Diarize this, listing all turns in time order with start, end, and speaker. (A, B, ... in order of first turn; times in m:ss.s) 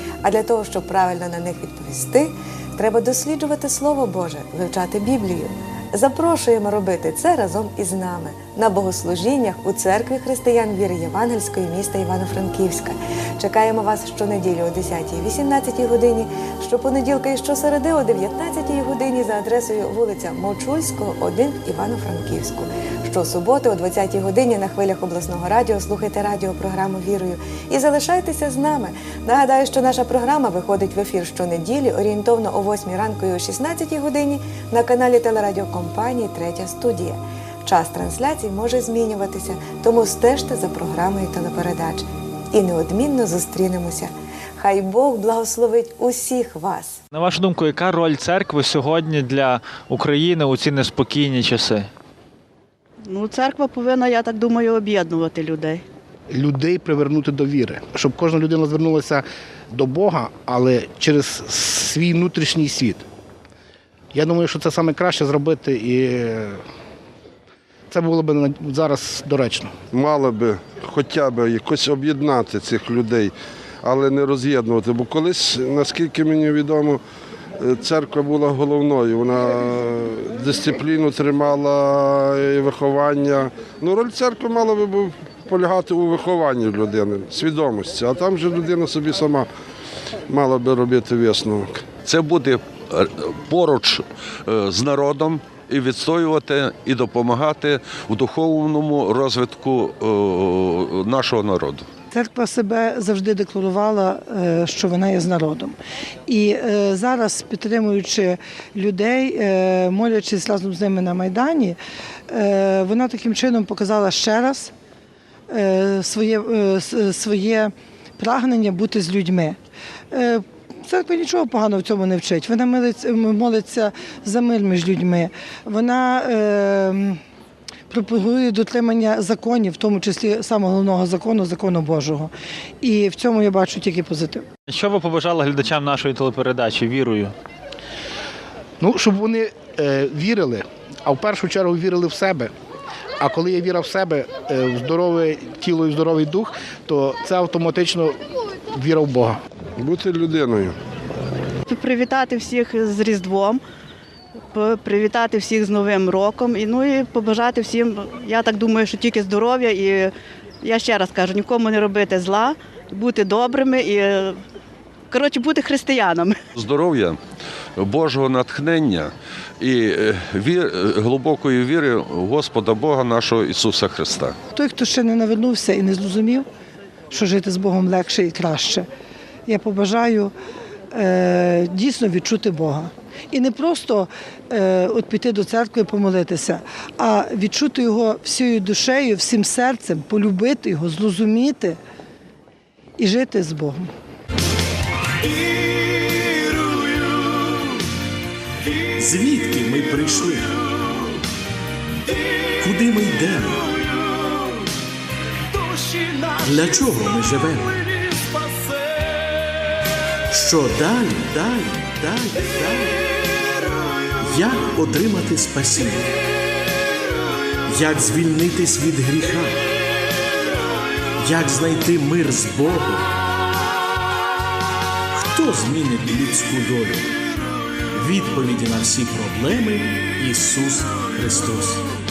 0:00.2-0:47.0 A
0:47.1-0:51.9 B
0:53.1-0:55.8 C
0:56.3-1:03.0 D
1:04.1-1:06.6 D
1:07.9-1:09.7 D
1:09.9-1:17.0 E
1:17.6-1:29.5 E
1:30.3-1:31.9 E
1:32.0-1:41.8 F
1:42.1-1:45.8 G
1:46.3-1:51.8 G
1:52.3-1:54.7 G
1:55.5-1:59.6 G
2:00.1-2:07.2 G
2:07.9-2:14.4 G
2:14.7-2:17.3 B
2:18.8-2:22.5 D
2:23.2-2:28.2 D
2:28.7-2:29.4 D
2:29.8-2:30.8 E
2:31.7-2:33.6 C
2:34.5-2:44.4 C
2:45.1-2:46.4 C
2:46.5-2:47.2 F
2:47.8-2:54.3 F
2:54.5-2:56.4 G
2:57.1-2:58.9 G
2:59.5-3:00.3 G
3:00.9-3:11.8 G
3:13.0-3:13.9 G
3:19.0-3:20.5 H
3:22.6-3:23.7 H
3:26.4-3:27.8 H
3:30.3-3:33.0 H
3:34.2-3:36.1 H
3:37.7-3:39.5 H
3:41.2-3:43.1 H
3:45.1-3:47.0 H
3:47.9-3:51.8 H